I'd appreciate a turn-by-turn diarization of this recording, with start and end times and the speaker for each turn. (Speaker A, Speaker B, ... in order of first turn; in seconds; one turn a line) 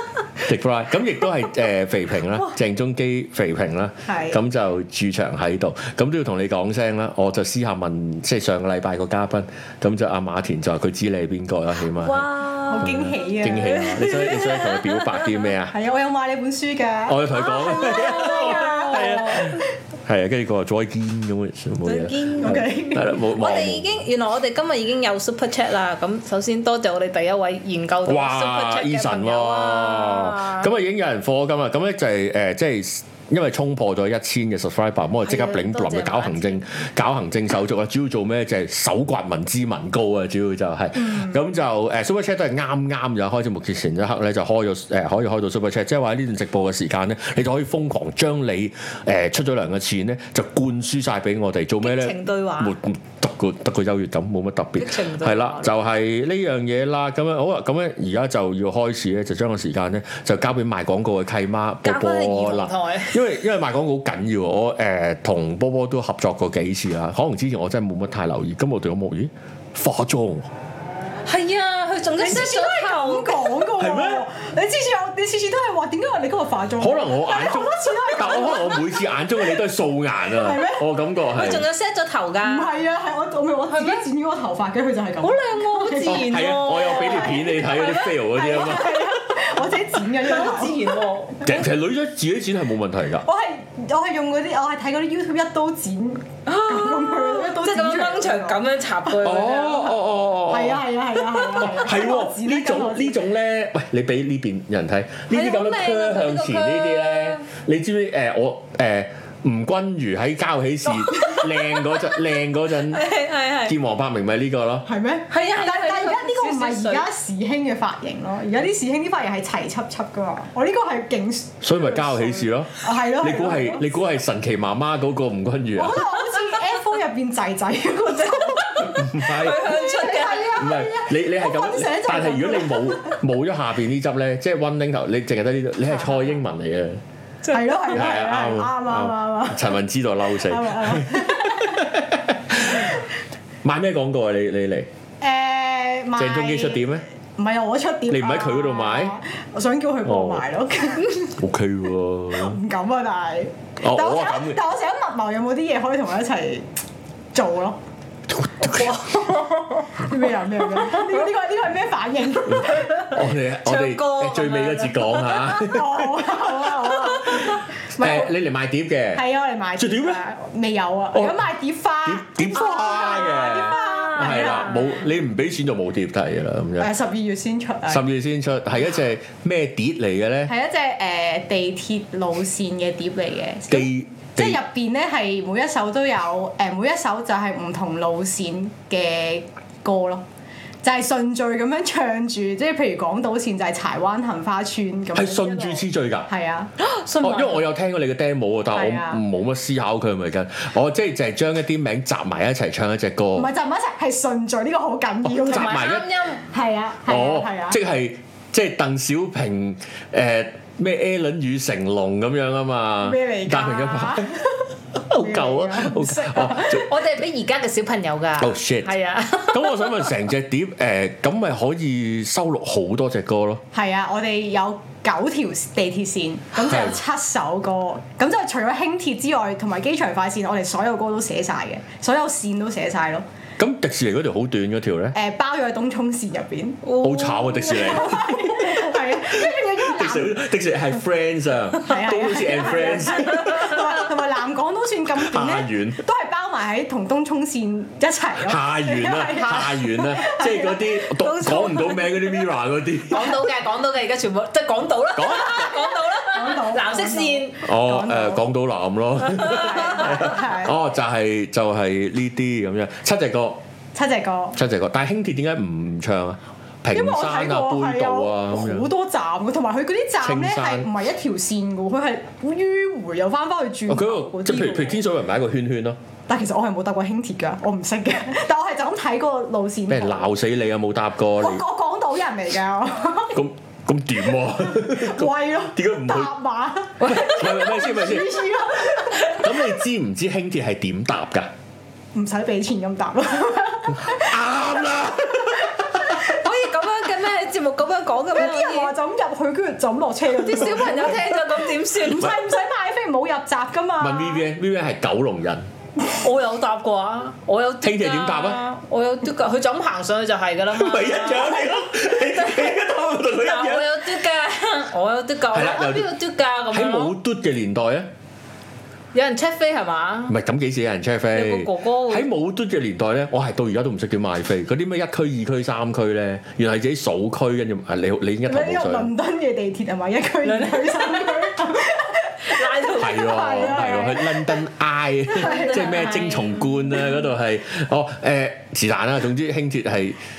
Speaker A: 0.4-12.3
Speaker B: 4.1-4.4
Speaker C: 12.0-15.5
Speaker B: 12.7-14.2
Speaker A: 12.8-15.7
Speaker B: 15.7-19.6
Speaker A: 17.1-23.9
Speaker C: 17.4-19.6
Speaker C: 21.8-30.7
Speaker B: 22.4-23.1
Speaker A: 28.1-70.5
Speaker C: 35.2-36.6
Speaker B: 41.0-41.4
Speaker C: 51.8-52.8
Speaker C: 54.8-55.7
Speaker C: 61.9-63.2
Speaker C: 71.2-73.7
Speaker B: 72.2-79.6
Speaker A: 73.8-74.2
Speaker A: 76.8-81.7
Speaker B: 80.3-80.8
Speaker C: 81.3-82.8
Speaker B: 82.4-86.4
Speaker C: 83.7-84.0
Speaker C: 85.2-88.1
Speaker A: 86.0-89.4
Speaker B: 87.9-91.0
Speaker C: 90.2-91.5
Speaker A: 91.4-93.3
Speaker B: 93.2-98.6
Speaker C: 96.5-100.0
Speaker A: 99.2-113.0
Speaker B: 99.3-99.9
Speaker B: 100.5-103.2
Speaker C: 105.3-107.4
Speaker C: 111.0-112.2
Speaker C: 112.9-113.8
Speaker A: 113.6-114.9
Speaker B: 114.9-123.9
Speaker C: 115.3-117.1
Speaker A: 121.6-126.1
Speaker B: 125.8-133.2
Speaker C: 128.3-130.7
Speaker A: 128.8-129.8
Speaker A: 130.5-137.0
Speaker C: 137.5-137.7
Speaker B: 137.5-139.8
Speaker A: 137.9-143.0
Speaker B: 140.3-141.9
Speaker A: 143.6-144.9
Speaker B: 145.2-151.3
Speaker A: 146.2-147.1
Speaker A: 148.1-149.2
Speaker A: 150.1-150.5
Speaker A: 151.4-152.6
Speaker B: 152.3-156.7
Speaker A: 153.8-154.6
Speaker B: 157.3-157.8
Speaker A: 158.3-159.2
Speaker C: 158.7-160.1
Speaker B: 159.9-163.1
Speaker A: 162.5-169.2
Speaker C: 162.9-165.7
Speaker B: 165.6-168.3
Speaker C: 167.1-167.6
Speaker B: 169.1-174.8
Speaker A: 169.8-170.2
Speaker A: 171.1-171.4
Speaker A: 172.1-176.9
Speaker C: 172.9-174.8
Speaker B: 176.8-178.1
Speaker A: 177.9-180.5
Speaker B: 180.5-190.2
Speaker A: 183.7-184.6
Speaker B: 190.8-196.7
Speaker A: 195.1-196.3
Speaker C: 196.8-197.7
Speaker A: 197.2-203.5
Speaker B: 198.7-199.2
Speaker B: 203.3-205.9
Speaker A: 205.3-206.1
Speaker C: 205.4-206.4
Speaker B: 206.5-207.8
Speaker A: 207.1-214.4
Speaker B: 213.0-216.9
Speaker A: 215.0-216.9
Speaker C: 216.7-220.1
Speaker A: 218.4-218.9
Speaker A: 219.5-223.6
Speaker B: 223.7-233.2
Speaker A: 226.6-227.0
Speaker A: 233.6-235.2
Speaker B: 235.1-236.8
Speaker C: 236.8-238.1
Speaker A: 237.0-243.9
Speaker B: 237.6-240.4
Speaker B: 241.8-250.8
Speaker A: 245.2-246.0
Speaker A: 248.4-253.5
Speaker C: 251.1-252.5
Speaker C: 253.1-257.6
Speaker A: 255.2-255.8
Speaker B: 255.7-258.4
Speaker A: 257.6-263.6
Speaker B: 259.4-260.8
Speaker C: 259.4-259.7
Speaker B: 263.9-264.6
Speaker A: 264.6-268.9
Speaker B: 266.9-275.0
Speaker A: 270.2-270.9
Speaker A: 273.9-276.0
Speaker B: 276.3-280.3
Speaker A: 279.9-281.6
Speaker B: 281.4-283.4
Speaker A: 283.3-286.3
Speaker B: 284.5-289.6
Speaker A: 287.0-291.5
Speaker C: 287.1-287.6
Speaker B: 292.1-296.4
Speaker A: 293.9-295.9
Speaker C: 296.0-298.9
Speaker B: 298.3-304.4
Speaker C: 300.3-302.4
Speaker A: 304.0-305.7
Speaker C: 306.0-311.8
Speaker A: 307.8-308.6
Speaker A: 310.7-314.0
Speaker C: 312.3-312.8
Speaker C: 313.4-317.1
Speaker A: 315.5-316.1
Speaker A: 316.7-318.1
Speaker C: 319.1-320.4
Speaker A: 320.3-329.1
Speaker C: 321.3-322.3
Speaker B: 328.5-334.6
Speaker C: 330.4-331.5
Speaker C: 332.5-334.0
Speaker A: 332.9-340.2
Speaker B: 335.3-336.1
Speaker C: 335.4-337.1